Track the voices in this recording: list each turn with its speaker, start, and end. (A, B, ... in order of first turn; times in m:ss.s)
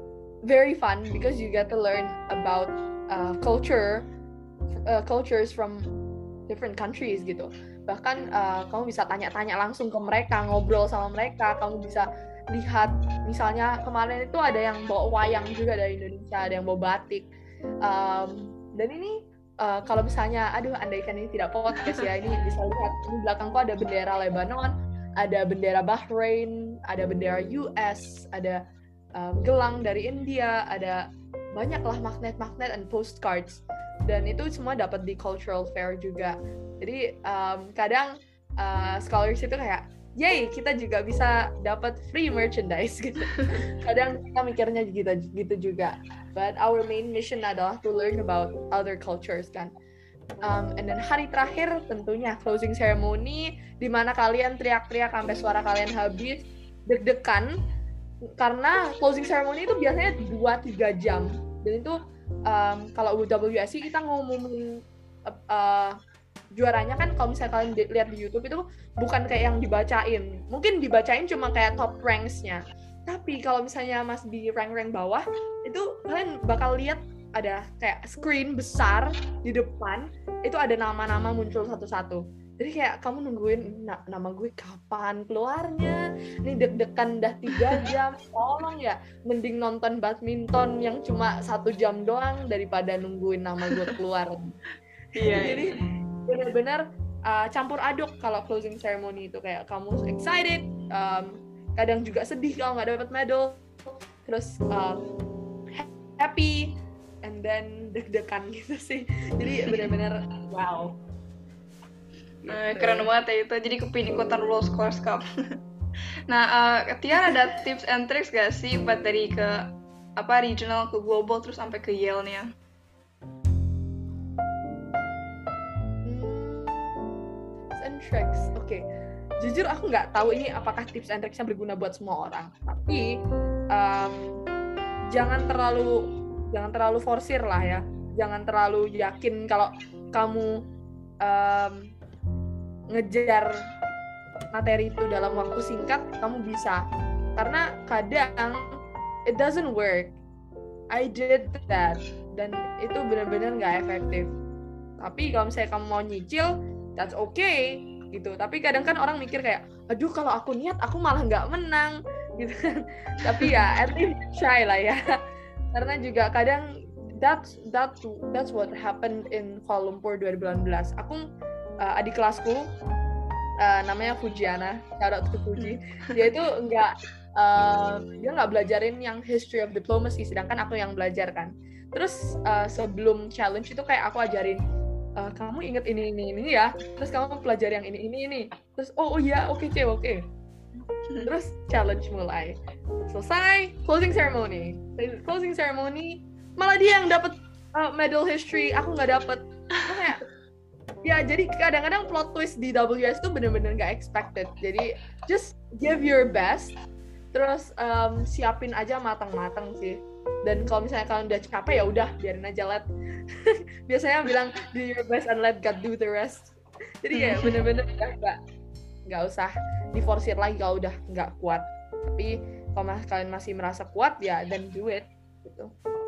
0:00.5-0:04.0 A
0:04.9-0:05.8 A
0:06.5-0:17.3 A
0:17.8-0:28.6 A
0:21.8-0:22.1 B
0:29.2-0:31.0 A
0:31.6-0:49.7 A
0:50.4-0:57.5 A
0:58.4-1:02.0 A
1:02.5-1:04.6 A
1:05.3-1:05.9 A
1:06.6-1:34.5 A
1:27.6-1:27.8 B
1:35.2-1:35.7 B
1:35.2-1:43.6 A
1:44.2-1:45.0 A
1:45.7-1:51.0 A
1:49.6-1:49.9 B
1:52.5-1:53.1 A
1:52.5-1:55.2 B
1:56.3-1:59.6 B
2:00.2-2:02.5 B
2:06.0-2:06.9 A
2:07.8-2:08.8 A
2:09.4-2:13.0 A
2:13.7-2:14.4 A
2:15.1-2:15.9 A
2:16.5-2:20.5 A
2:21.2-2:21.9 A
2:22.9-2:23.5 A
2:24.5-2:26.8 A
2:27.4-2:28.6 A
2:29.3-2:30.1 A
2:30.9-2:34.3 A
2:35.0-2:45.0 A
2:45.7-2:46.6 A
2:47.2-2:51.2 A
2:51.8-2:52.7 A
2:53.6-3:04.6 A
2:55.6-2:56.3 B
3:05.2-3:10.2 A
3:11.2-3:12.6 A
3:13.1-3:20.2 A
3:21.0-3:26.8 A
3:27.3-3:32.8 A
3:33.5-3:38.4 A
3:37.1-3:37.6 B
3:39.1-3:45.7 A